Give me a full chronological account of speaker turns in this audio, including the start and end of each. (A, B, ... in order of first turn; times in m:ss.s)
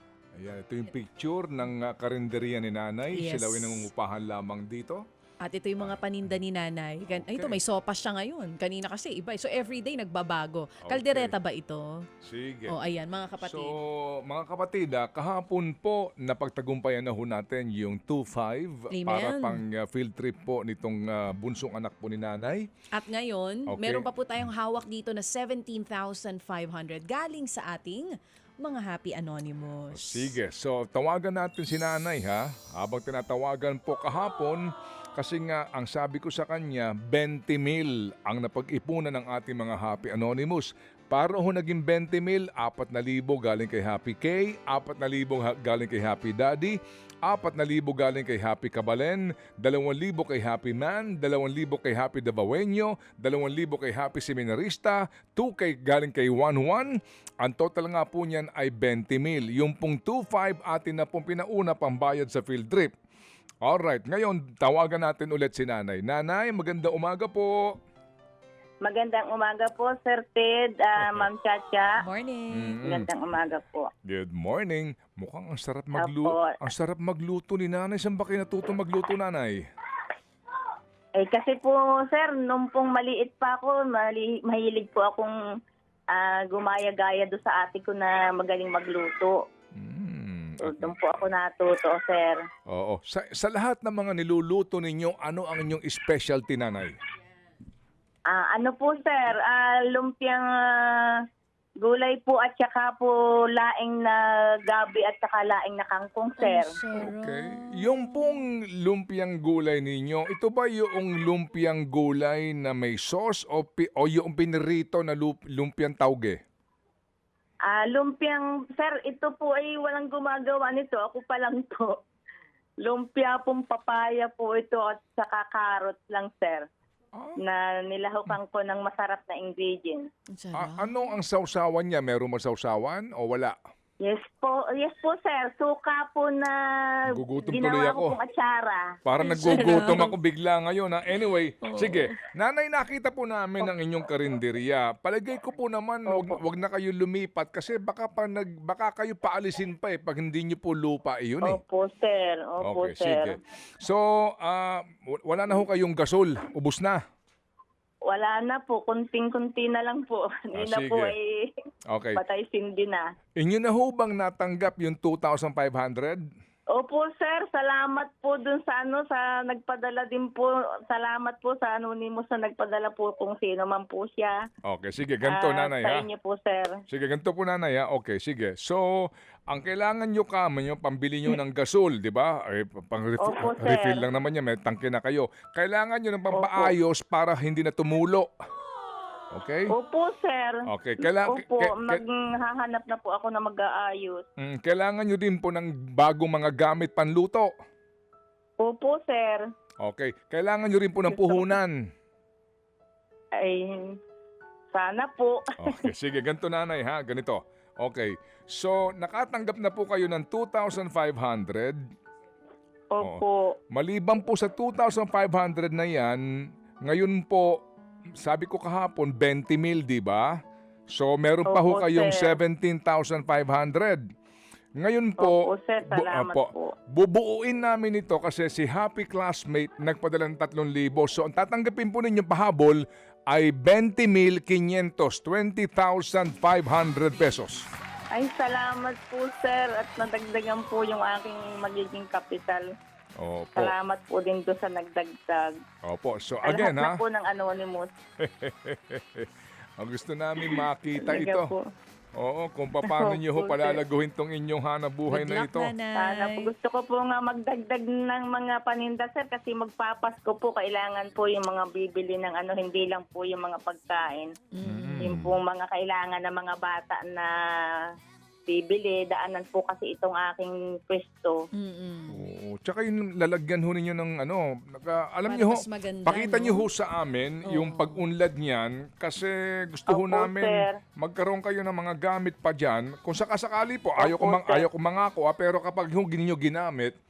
0:00.4-0:05.0 A
0:03.1-0:03.9 B
0:05.4-0:11.9 B
0:07.1-0:07.6 A
0:10.8-0:11.3 A
0:12.2-0:12.7 A
0:12.7-0:13.7 B
0:13.4-0:22.6 A
0:18.9-0:19.6 B
0:22.9-0:30.3 B
0:23.7-0:24.0 A
0:29.9-0:34.6 A
0:35.2-1:02.9 A
1:03.6-1:07.6 A
1:08.8-1:11.9 C
1:11.0-1:11.3 A
1:12.0-1:12.8 B
1:12.5-1:13.1 A
1:12.8-1:13.9 C
1:14.0-1:19.6 A
1:16.0-1:16.6 C
1:21.2-1:25.3 C
1:26.1-1:29.4 C
1:29.8-1:31.3 A
1:30.6-1:32.4 C
1:32.7-1:37.0 A
1:38.3-1:41.0 C
1:41.8-1:46.7 C
1:46.4-1:48.4 B
1:47.0-1:56.4 A
1:57.7-2:02.0 C
2:02.8-2:06.7 C
2:07.4-2:10.0 C
2:10.3-2:11.1 B
2:10.5-2:13.5 A
2:14.0-2:18.9 C
2:17.1-2:18.2 A
2:19.0-2:31.6 A
2:19.2-2:20.1 B
2:19.4-2:19.8 C
2:21.7-2:22.1 B
2:26.1-2:26.4 C
2:31.4-2:33.4 C
2:32.6-2:37.0 A
2:38.1-2:41.5 C
2:40.6-2:41.1 A
2:41.9-2:42.2 A
2:42.1-2:43.0 C
2:43.4-2:46.2 A
2:46.7-2:54.4 C
2:54.6-2:56.0 A
2:55.2-2:56.8 C
2:56.9-2:58.8 A
2:59.5-3:08.3 A
3:03.2-3:04.0 C
3:06.3-3:06.7 C
3:09.3-3:09.7 A
3:09.7-3:14.2 C
3:10.7-3:12.0 A
3:14.4-3:17.5 A
3:18.6-3:19.4 C
3:19.8-3:21.8 A
3:21.1-3:21.4 C
3:23.4-3:23.9 C
3:24.7-3:25.9 C
3:25.6-3:31.8 A
3:32.9-3:33.5 C
3:33.0-3:36.2 A
3:36.8-3:37.6 A
3:38.2-3:40.4 A
3:40.9-3:44.0 A
3:41.4-3:42.4 C
3:44.8-3:57.7 A
3:45.2-3:46.7 C
3:58.1-4:02.6 C
4:03.2-4:03.7 A
4:03.6-4:05.6 C
4:05.8-4:07.0 A
4:06.4-4:07.9 C
4:08.2-4:11.5 A
4:10.4-4:11.6 C
4:12.2-4:15.7 A
4:12.8-4:13.8 C
4:15.1-4:16.5 B
4:16.0-4:24.3 C
4:24.5-4:25.2 B
4:24.6-4:25.4 A
4:25.0-4:27.3 C
4:28.5-4:31.4 C
4:31.6-4:32.2 B
4:32.1-4:46.9 A
4:35.2-4:36.7 B
4:37.5-4:38.0 B
4:39.9-4:40.8 C
4:44.0-4:44.6 C